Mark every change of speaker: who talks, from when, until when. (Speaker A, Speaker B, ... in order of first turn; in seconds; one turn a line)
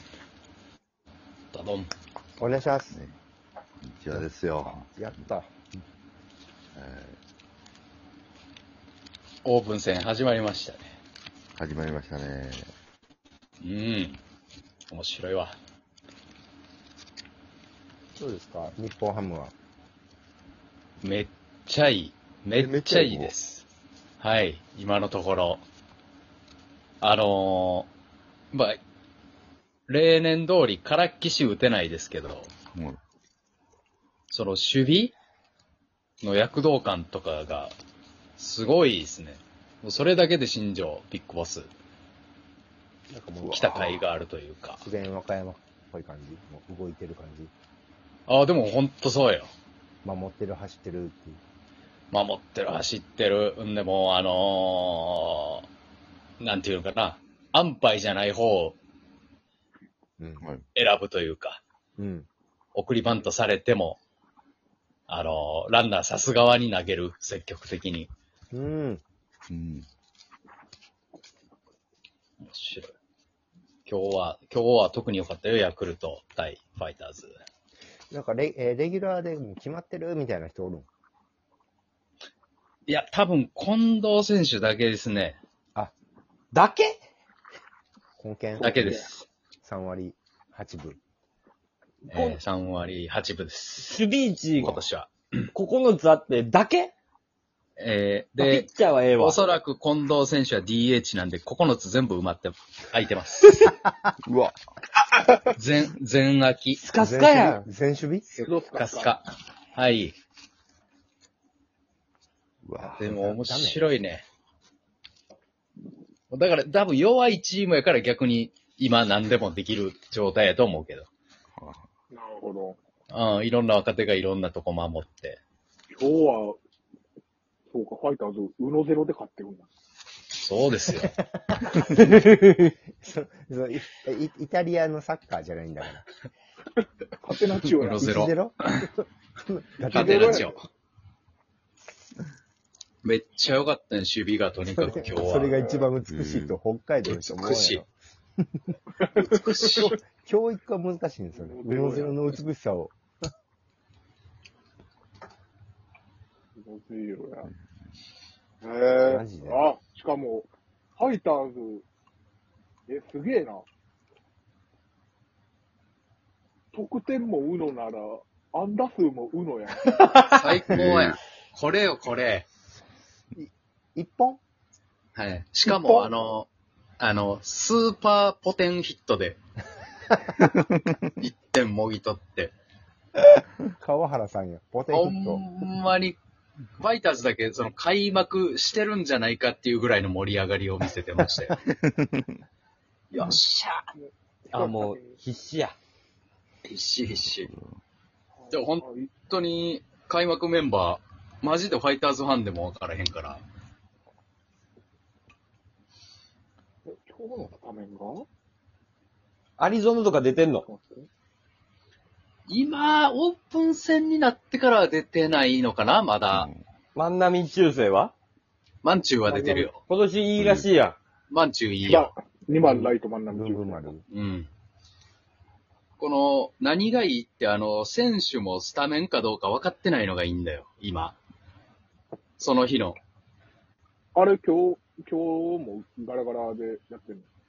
Speaker A: 1.5-1.9
Speaker B: 2.4-3.0
Speaker C: 2.9-3.2
Speaker C: 3.8-5.3
Speaker B: 4.1-5.6
Speaker C: 6.8-7.2
Speaker A: 9.4-10.9
Speaker C: 11.6-12.7
Speaker A: 13.6-14.2
Speaker A: 14.9-15.6
Speaker B: 18.2-19.5
Speaker A: 21.0-23.6
Speaker B: 22.6-23.2
Speaker A: 24.2-25.6
Speaker A: 27.0-27.9
Speaker A: 28.5-28.8
Speaker A: 29.9-32.5
Speaker C: 32.7-33.0
Speaker A: 34.3-35.1
Speaker A: 36.2-37.7
Speaker A: 38.4-41.7
Speaker B: 43.1-44.0
Speaker A: 43.5-44.9
Speaker B: 44.8-47.5
Speaker A: 48.3-49.5
Speaker B: 50.0-51.4
Speaker A: 52.1-55.6
Speaker A: 56.4-58.8
Speaker B: 60.2-60.5
Speaker A: 60.8-61.6
Speaker B: 62.0-62.3
Speaker A: 62.8-64.0
Speaker A: 65.1-68.1
Speaker B: 68.5-69.0
Speaker C: 69.5-69.9
Speaker A: 72.4-72.9
Speaker A: 73.9-77.3
Speaker B: 78.1-80.9
Speaker A: 82.9-85.4
Speaker D: 86.5-87.0
Speaker B: 88.2-89.1
Speaker A: 88.6-89.0
Speaker E: 88.6-89.1
Speaker B: 89.6-91.0
Speaker D: 92.1-92.4
Speaker A: 92.1-94.0
Speaker D: 93.8-94.7
Speaker A: 94.6-95.5
Speaker D: 95.5-96.9
Speaker A: 97.8-103.6
Speaker D: 98.4-99.4
Speaker C: 104.2-104.6
Speaker A: 105.5-106.8
Speaker D: 106.8-107.7
Speaker B: 107.0-108.5
Speaker E: 108.3-109.2
Speaker A: 108.7-110.2
Speaker C: 112.6-113.0
Speaker B: 112.8-113.9
Speaker A: 113.0-114.2
Speaker A: 116.3-121.1
Speaker C: 121.5-121.8
Speaker E: 122.1-122.8
Speaker A: 123.1-125.4
Speaker E: 125.9-126.6
Speaker E: 127.7-129.7
Speaker A: 130.4-131.2
Speaker B: 131.2-132.3
Speaker D: 132.0-132.7
Speaker B: 133.0-136.1
Speaker E: 137.2-138.1
Speaker A: 137.8-138.9
Speaker B: 138.0-140.6
Speaker E: 139.9-140.5
Speaker A: 139.9-140.6
Speaker A: 143.0-145.6
Speaker B: 144.7-147.9
Speaker E: 145.4-145.9
Speaker C: 146.1-146.6
Speaker A: 147.1-147.8
Speaker B: 148.4-148.8
Speaker E: 149.0-149.9
Speaker A: 149.2-149.9
Speaker B: 149.6-152.9
Speaker E: 151.3-152.2
Speaker E: 156.6-157.5
Speaker E: 158.6-161.8
Speaker B: 159.1-159.7
Speaker E: 162.9-163.6
Speaker E: 166.7-169.9
Speaker A: 170.2-172.4
Speaker C: 170.7-171.2
Speaker B: 173.4-174.4
Speaker A: 175.2-176.5
Speaker E: 175.7-176.1
Speaker A: 177.0-179.4
Speaker A: 181.2-182.5
Speaker B: 183.8-185.4
Speaker A: 184.9-186.2
Speaker A: 186.8-191.6
Speaker C: 191.8-192.3
Speaker A: 193.1-193.8
Speaker D: 194.5-195.8
Speaker E: 194.5-195.2
Speaker A: 196.6-197.5
Speaker C: 197.1-197.8
Speaker E: 198.4-199.1
Speaker A: 198.5-203.4
Speaker E: 206.9-208.3
Speaker D: 209.6-210.7
Speaker E: 210.7-211.1
Speaker A: 212.5-216.5
Speaker C: 216.3-216.6
Speaker D: 216.9-218.1
Speaker A: 218.8-219.8
Speaker E: 219.3-219.7
Speaker D: 219.9-221.0
Speaker C: 220.4-220.7
Speaker A: 221.3-222.1
Speaker E: 221.8-223.9
Speaker B: 223.3-224.1
Speaker A: 224.1-224.5
Speaker A: 226.0-231.2
Speaker A: 232.4-233.0
Speaker E: 234.2-237.3